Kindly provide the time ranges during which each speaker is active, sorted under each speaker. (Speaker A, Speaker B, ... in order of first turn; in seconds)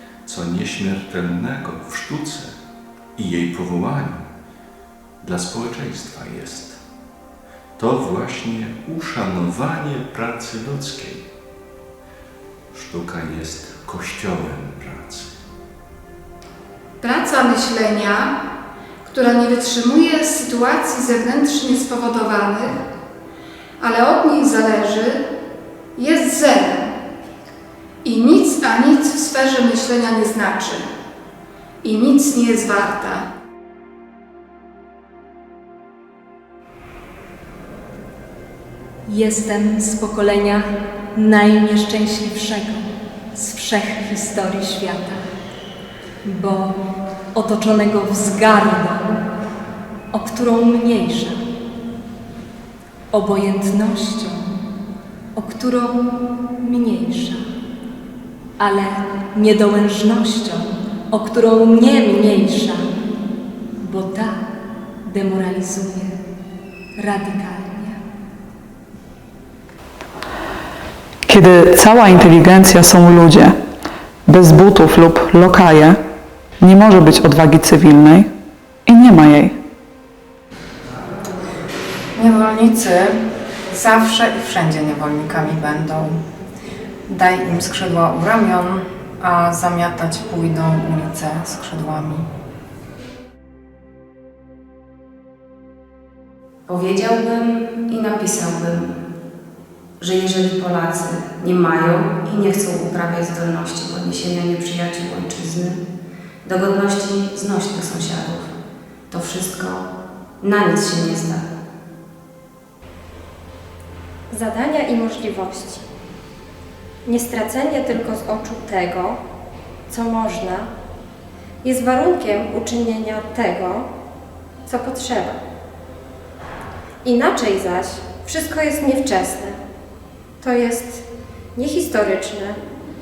Speaker A: 0.2-2.5, 3.2-4.2, 5.2-6.8, 7.8-11.2, 12.7-15.3
Speaker B: 17.0-18.4, 19.0-22.8, 23.8-25.2, 25.9-26.9, 28.0-30.9, 31.8-33.2
Speaker C: 39.1-45.2, 46.2-46.8, 47.3-49.2, 50.1-51.4, 53.1-54.5, 55.3-56.0, 56.6-57.4, 58.6-62.8, 63.8-64.4, 65.0-66.2, 67.0-68.0
Speaker D: 71.3-73.6, 74.2-76.0, 76.6-78.3, 78.8-79.6
Speaker E: 82.1-83.2, 83.7-86.2, 87.1-92.3
Speaker F: 96.7-99.0, 100.0-105.8, 106.4-108.5, 109.1-109.8, 110.4-111.4
Speaker G: 114.3-115.8, 117.0-119.2, 119.9-120.7, 121.6-123.9, 124.7-125.4, 127.0-129.6, 130.4-132.6